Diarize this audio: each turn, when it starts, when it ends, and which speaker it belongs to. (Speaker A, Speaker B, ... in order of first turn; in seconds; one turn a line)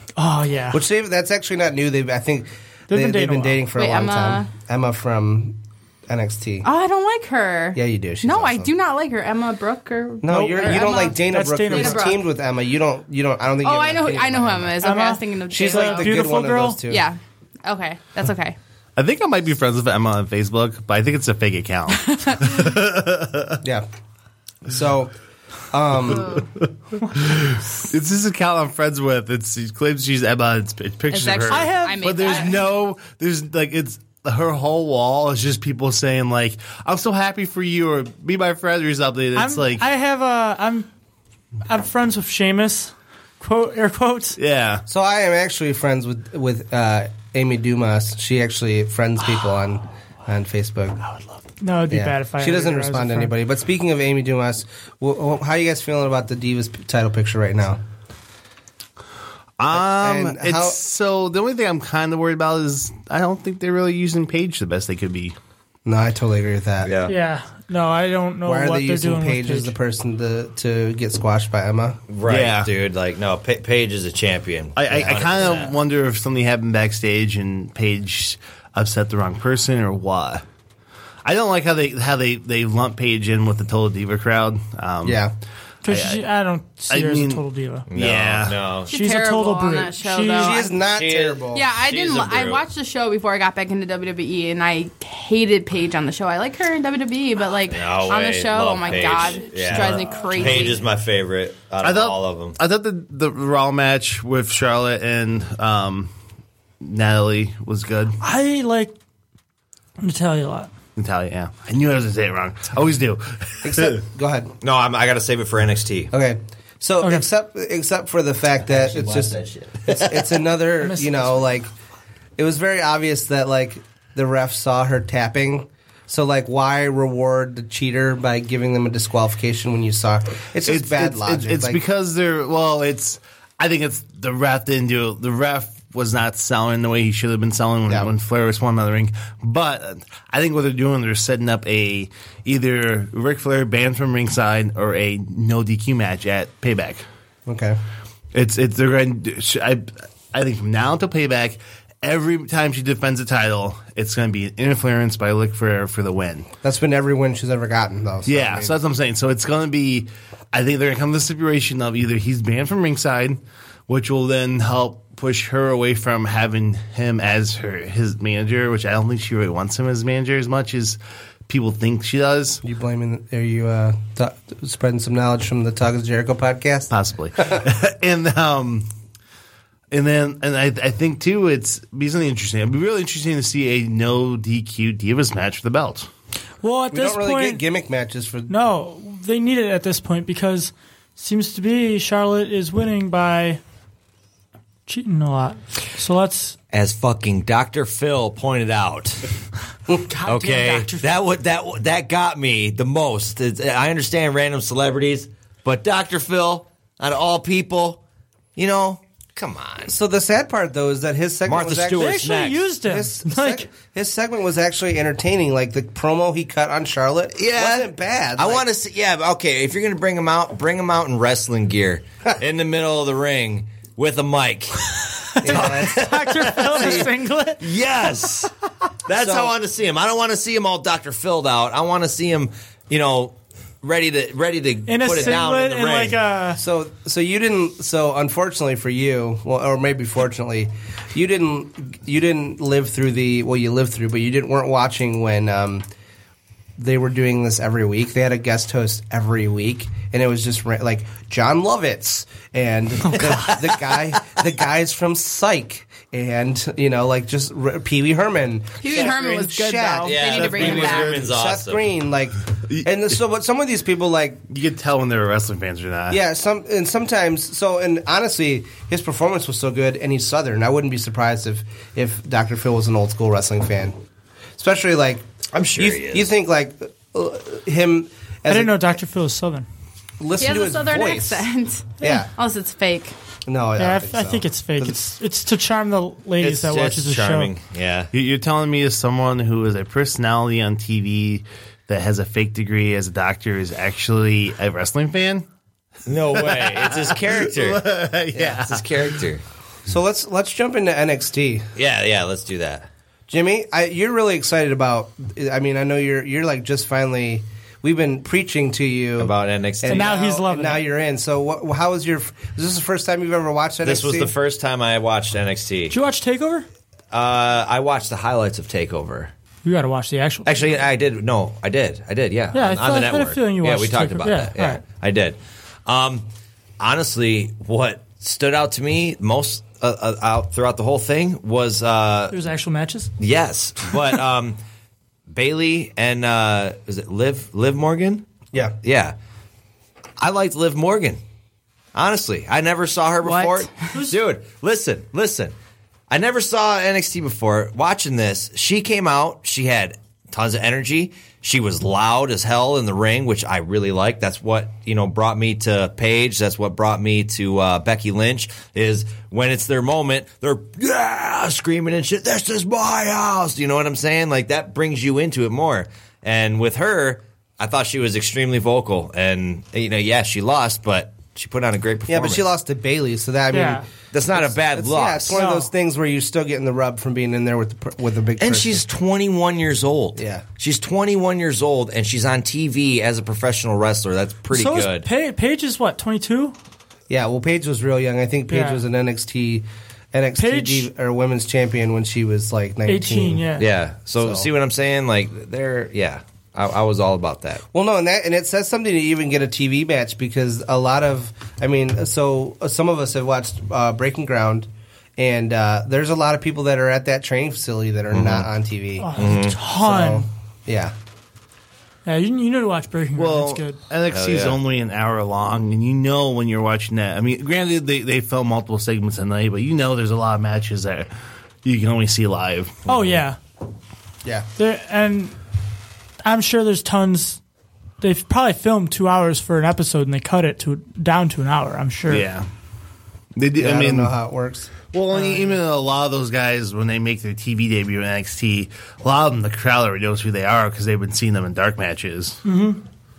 Speaker A: 0.2-0.8
Speaker B: 0.7-6.7
Speaker A: 2.9-3.7
Speaker C: 3.8-4.5
Speaker C: 6.6-12.2
Speaker B: 7.8-8.7
Speaker B: 10.2-14.8
Speaker A: 10.3-12.2
Speaker C: 13.6-18.6
Speaker A: 14.8-16.8
Speaker B: 15.5-17.1
Speaker D: 19.0-23.6
Speaker C: 22.1-22.6
Speaker B: 24.7-25.1
Speaker B: 25.7-26.4
Speaker D: 27.1-39.8
Speaker C: 31.1-32.7
Speaker A: 31.5-32.5
Speaker A: 39.4-40.9
Speaker A: 41.7-44.4
Speaker D: 44.4-44.8
Speaker B: 44.9-51.0
Speaker A: 51.6-53.3
Speaker B: 51.9-57.8
Speaker D: 59.6-65.3
Speaker B: 59.7-60.8
Speaker B: 65.9-66.9
Speaker E: 66.8-67.1
Speaker A: 67.1-69.7
Speaker B: 68.4-72.0
Speaker E: 72.1-75.7
Speaker D: 72.3-72.7
Speaker D: 74.8-80.4
Speaker D: 81.2-85.2
Speaker B: 85.0-85.3
Speaker A: 85.8-87.8
Speaker D: 85.9-86.2
Speaker D: 86.9-88.6
Speaker E: 87.9-88.9
Speaker C: 88.9-90.8
Speaker A: 88.9-90.6
Speaker B: 90.3-91.6
Speaker E: 90.9-92.6
Speaker C: 91.5-100.8
Speaker E: 97.7-102.6
Speaker A: 99.0-100.7
Speaker D: 101.8-106.1
Speaker D: 106.8-108.2
Speaker A: 108.2-108.9
Speaker A: 110.0-110.7
Speaker D: 111.0-114.0
Speaker B: 113.6-114.5
Speaker E: 114.6-116.1
Speaker B: 116.1-121.7
Speaker E: 118.6-120.3
Speaker A: 120.8-121.4
Speaker B: 122.4-131.8
Speaker D: 130.7-147.0
Speaker B: 147.5-147.8
Speaker D: 148.3-156.5
Speaker B: 156.6-158.8
Speaker D: 158.3-172.6
Speaker B: 172.6-176.9
Speaker D: 176.9-178.9
Speaker D: 179.9-186.1
Speaker A: 186.6-187.6
Speaker B: 186.9-188.5
Speaker A: 188.5-193.6
Speaker A: 194.9-196.6
Speaker E: 196.7-199.3
Speaker A: 199.9-201.1
Speaker E: 200.3-208.0
Speaker E: 208.6-209.9
Speaker B: 209.9-212.2
Speaker E: 211.5-212.7
Speaker A: 212.0-213.7
Speaker B: 212.8-218.7
Speaker E: 217.4-228.5
Speaker B: 225.4-227.1
Speaker A: 225.4-227.7
Speaker E: 229.1-236.2
Speaker B: 229.1-229.6
Speaker A: 234.9-236.6
Speaker B: 236.6-245.9
Speaker B: 246.8-264.4
Speaker C: 258.8-261.2
Speaker E: 260.0-261.8
Speaker D: 260.3-261.3
Speaker D: 264.5-266.2
Speaker B: 266.1-274.0
Speaker B: 274.6-278.9
Speaker E: 275.5-276.3
Speaker A: 278.5-279.7
Speaker B: 280.2-281.5
Speaker C: 280.4-283.1
Speaker B: 282.0-282.3
Speaker B: 283.5-284.9
Speaker A: 283.8-287.5
Speaker E: 286.4-288.1
Speaker D: 288.1-295.4
Speaker E: 296.1-297.9
Speaker D: 296.3-299.2
Speaker B: 298.3-298.6
Speaker E: 298.4-299.4
Speaker B: 299.9-301.7
Speaker E: 301.8-302.9
Speaker B: 303.3-314.3
Speaker E: 309.2-310.1
Speaker A: 309.9-310.8
Speaker E: 313.8-315.9
Speaker A: 315.9-316.7
Speaker E: 317.1-319.3
Speaker A: 319.6-320.5
Speaker E: 320.4-326.3
Speaker A: 322.5-324.8
Speaker E: 326.8-332.4
Speaker A: 332.3-333.1
Speaker E: 333.2-334.6
Speaker E: 335.3-338.3
Speaker E: 338.8-339.1
Speaker E: 340.2-341.2
Speaker E: 341.9-345.5
Speaker C: 343.2-343.9
Speaker A: 343.9-344.2
Speaker E: 346.1-372.4
Speaker B: 372.1-378.8
Speaker A: 373.5-373.9
Speaker E: 374.1-375.4
Speaker A: 375.3-375.7
Speaker E: 378.4-385.1
Speaker B: 380.2-380.4
Speaker A: 384.5-386.6
Speaker B: 387.1-393.5
Speaker A: 388.5-388.8
Speaker A: 390.4-390.9
Speaker A: 392.9-393.7
Speaker E: 393.6-397.6
Speaker B: 394.2-394.5
Speaker B: 397.7-409.2
Speaker E: 408.1-408.5
Speaker A: 409.0-410.3
Speaker E: 409.2-409.6
Speaker B: 409.7-410.9
Speaker A: 412.1-413.8
Speaker D: 413.2-421.1
Speaker E: 414.1-414.6
Speaker D: 421.6-422.9
Speaker A: 422.9-423.4
Speaker A: 424.6-425.4
Speaker A: 426.2-427.4
Speaker A: 428.0-432.2
Speaker D: 432.1-432.5
Speaker D: 433.4-434.1
Speaker B: 433.6-434.7
Speaker D: 434.9-442.4
Speaker A: 435.1-435.6
Speaker A: 442.4-442.8